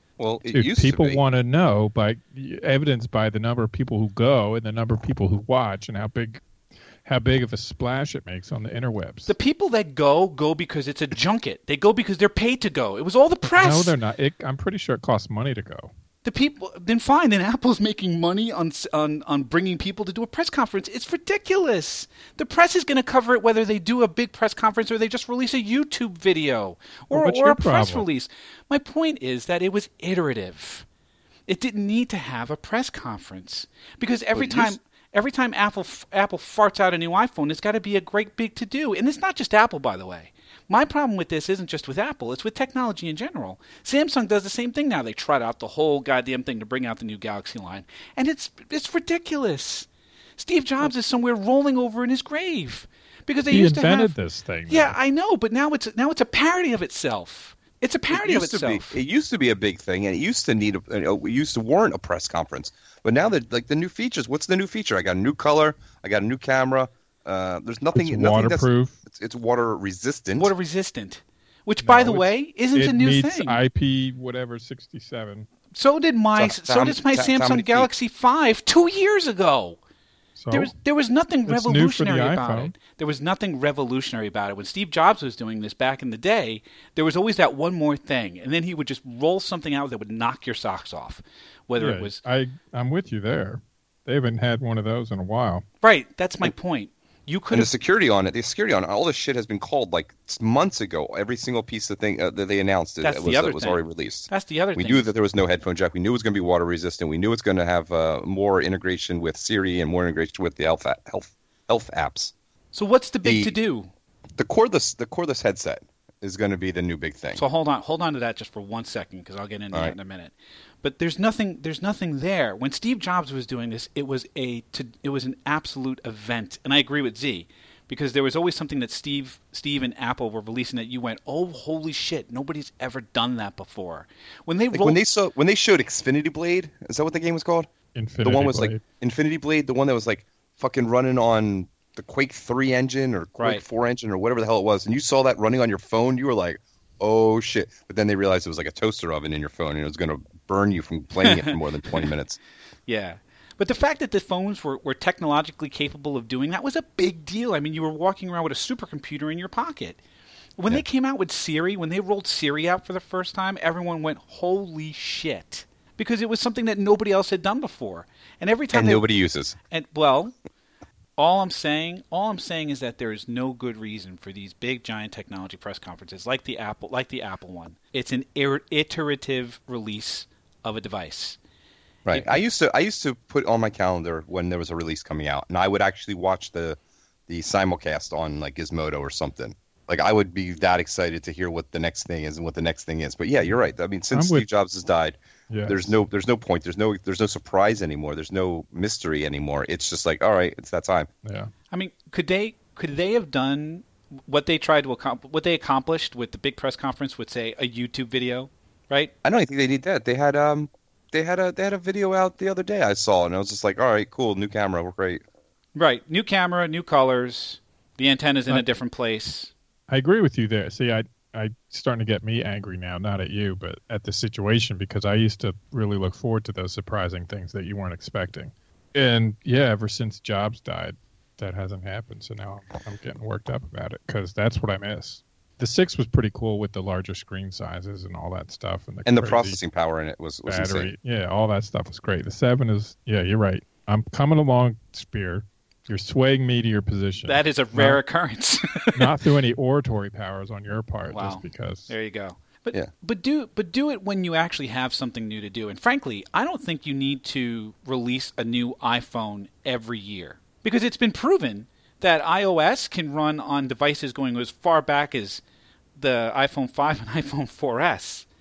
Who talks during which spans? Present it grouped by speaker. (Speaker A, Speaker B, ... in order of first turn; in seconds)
Speaker A: 0.2-1.2, 34.3-34.8, 58.1-70.5, 76.4-77.9, 97.5-112.3, 113.2-113.6, 114.4-117.4, 134.7-137.7, 138.2-152.4, 168.7-169.6, 182.1-201.1, 209.2-215.2, 239.1-240.9
Speaker B: 0.5-6.4, 7.0-9.3, 13.5-15.9, 27.1-28.1, 53.5-55.0, 68.0-69.0, 71.8-75.5, 80.4-80.7, 81.5-82.7, 91.8-95.7, 137.9-138.8, 194.1-194.5, 195.5-196.0, 201.2-201.5, 219.9-239.6, 240.5-248.0, 248.9-251.9
Speaker C: 9.3-14.0, 16.2-30.9, 31.5-49.9, 50.4-54.1, 54.7-59.0, 70.3-73.6, 75.7-79.8, 80.5-92.2, 95.8-97.7, 103.0-105.1, 112.7-113.9, 117.3-135.0, 143.4-143.6, 151.2-152.1, 152.9-160.0, 160.6-169.1, 169.7-170.3, 171.2-181.4, 182.1-182.4, 201.7-209.1, 215.8-219.5, 247.3-249.2, 251.1-265.4, 266.0-268.3